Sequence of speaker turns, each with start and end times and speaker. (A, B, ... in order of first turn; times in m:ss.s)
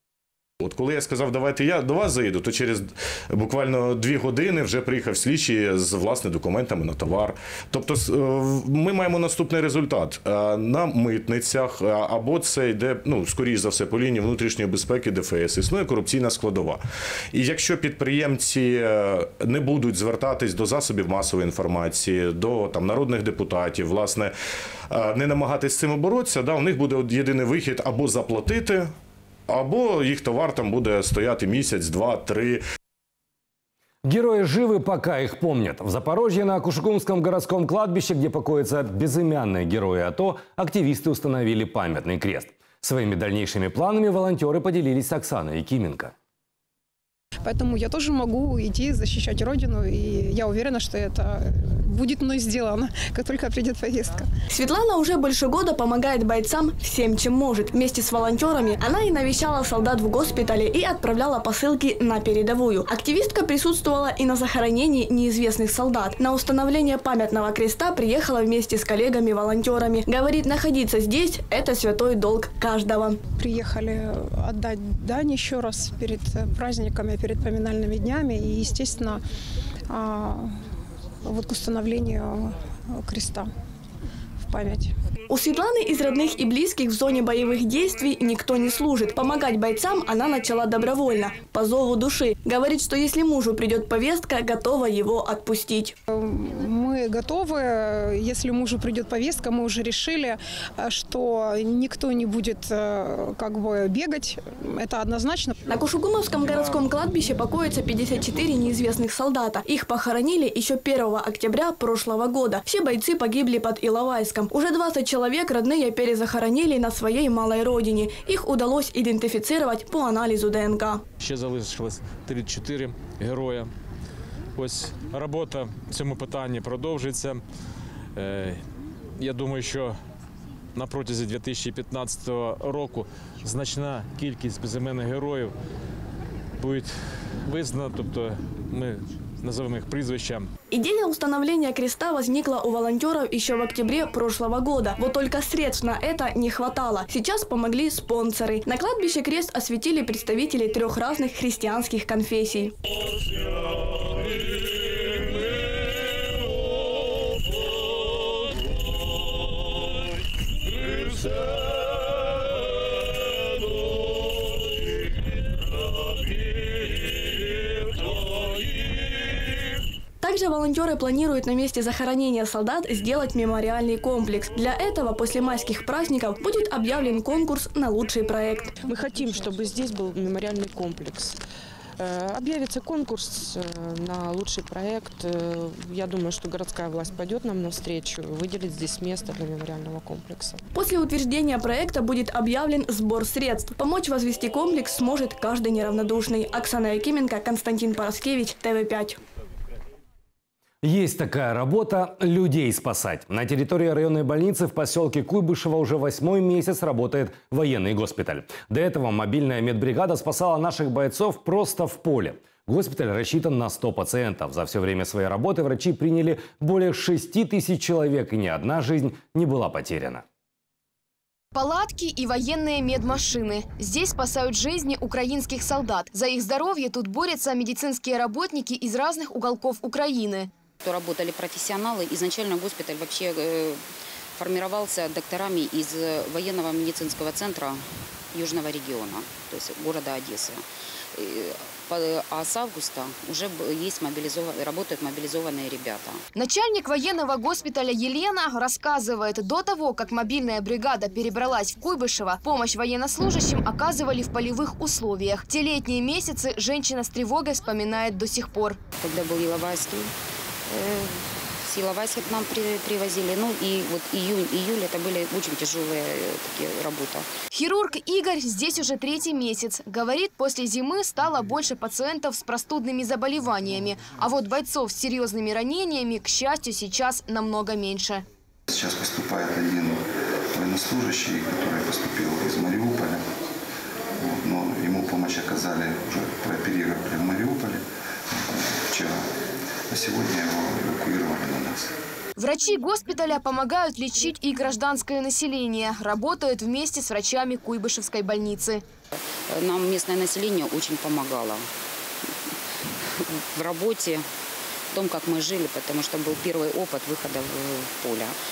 0:00.6-0:16.8 A
0:17.3-0:24.3 A
0:24.9-0:28.9 A
0:29.5-0:32.6 A
0:34.1-0:46.1 B
0:47.4-0:54.3 C
0:54.5-1:13.2 D
1:13.4-1:19.2 C
1:19.9-1:20.5 C
1:21.3-1:23.5 C
1:24.5-1:24.9 C
1:25.3-1:35.9 D
1:36.2-1:45.7 C
1:45.7-2:01.0 D
2:01.2-2:03.7 E
2:04.6-2:07.4 E
2:08.2-2:08.6 E
2:09.2-2:10.0 E
2:10.8-2:15.5 E
2:16.6-2:16.9 E
2:17.5-2:20.5 E
2:20.7-2:32.7 D
2:50.2-2:58.8 D
2:58.8-3:01.4 F
3:02.0-3:10.6 F
3:10.8-3:19.2 D
3:20.8-3:40.2 B
3:41.5-3:50.5 G
3:50.8-3:53.8 H
3:54.4-4:00.6 H
4:01.2-4:06.2 H
4:06.4-4:18.8 G
4:19.0-4:20.1 H
4:20.7-4:27.3 H
4:27.6-4:38.2 G
4:38.7-4:40.0 I
4:40.5-4:43.2 I
4:44.2-4:47.8 I
4:48.4-4:49.3 I
4:49.9-4:51.9 I
4:52.4-4:58.8 G
4:59.2-5:01.7 H
5:03.5-5:04.2 H
5:04.9-5:08.4 H